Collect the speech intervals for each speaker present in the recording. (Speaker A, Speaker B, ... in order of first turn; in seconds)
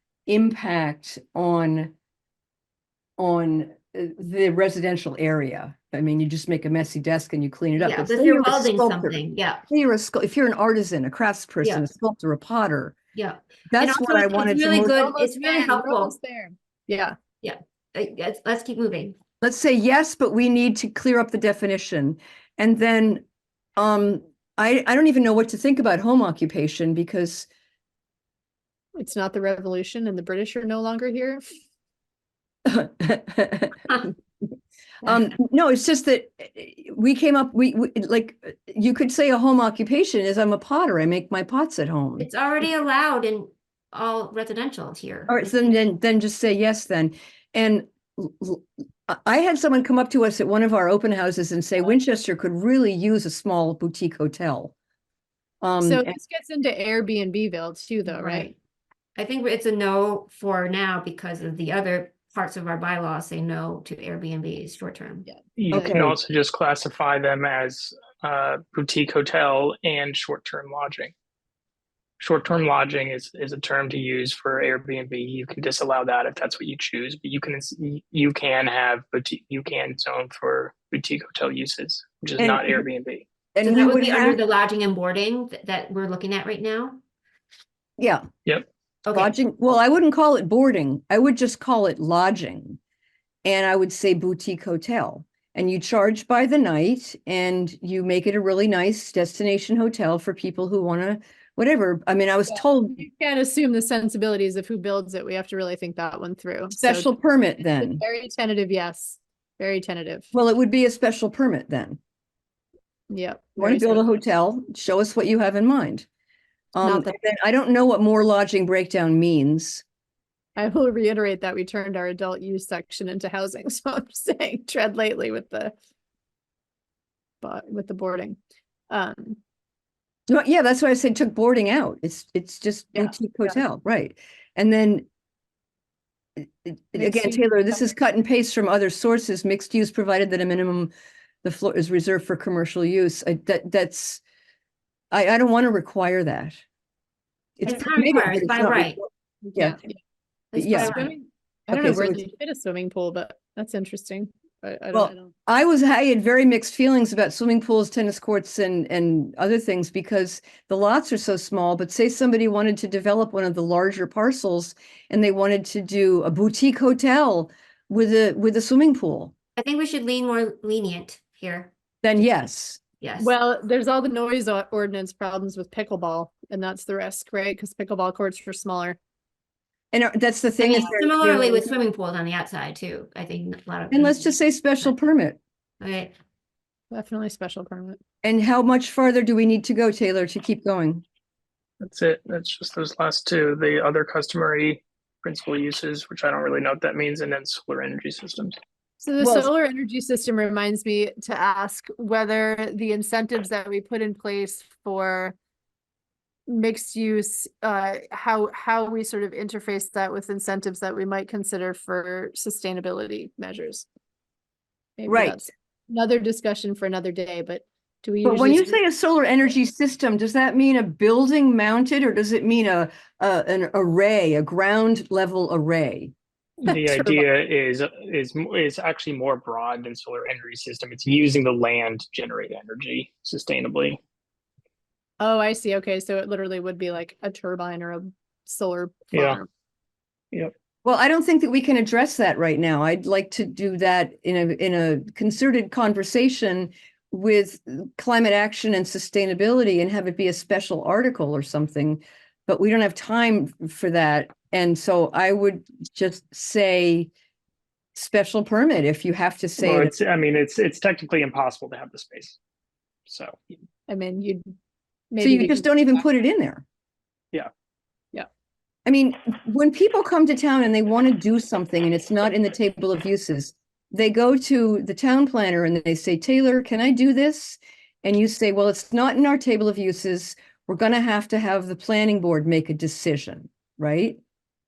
Speaker A: 0.3-1.9, 3.2-12.9, 13.7-15.0, 19.4-23.2, 23.8-27.5, 32.6-34.1, 35.0-42.3, 45.3-54.7, 55.6-56.1, 65.7-66.2, 82.4-82.8, 83.5-84.4, 88.0-88.2, 89.1-92.8, 93.4-103.0, 106.8-108.0, 110.3-112.0, 113.6-116.1, 116.7-119.8, 130.3-135.1, 136.6-140.9, 141.4-144.2, 145.1-146.6, 147.6-149.0, 150.6-151.1, 151.7-152.2, 154.9-169.3, 172.0-172.8, 179.9-181.7, 183.9-185.4, 188.2-191.0, 199.2-199.5, 215.1-215.4, 218.2-226.1, 240.8-257.1, 257.9-259.9, 265.2-266.6, 268.9-284.2
Speaker B: 7.8-9.6, 13.1-16.1, 17.4-19.2, 42.2-45.7, 58.2-58.5, 59.1-65.3, 83.6-87.0, 89.0-89.3, 147.7-149.0, 150.5-151.1, 169.6-171.7, 173.0-173.3, 180.6-184.9, 185.8-186.1
Speaker C: 14.8-17.1, 28.9-31.4, 55.8-58.5, 65.3-66.0, 102.5-107.1, 107.8-110.3, 113.1-114.0, 116.8-117.1, 120.6-125.7, 127.4-128.4, 128.9-129.4, 137.0-137.4, 149.6-149.9, 150.7-155.3, 173.2-179.0, 186.9-188.0, 199.0-205.3, 206.5-213.8, 215.0-218.8, 226.7-227.2, 235.2-239.4, 263.9-264.5, 265.1-265.7
Speaker D: 65.6-71.1, 72.2-83.3, 191.8-198.6, 226.6-234.0, 239.1-239.4, 259.6-262.4, 263.1-263.4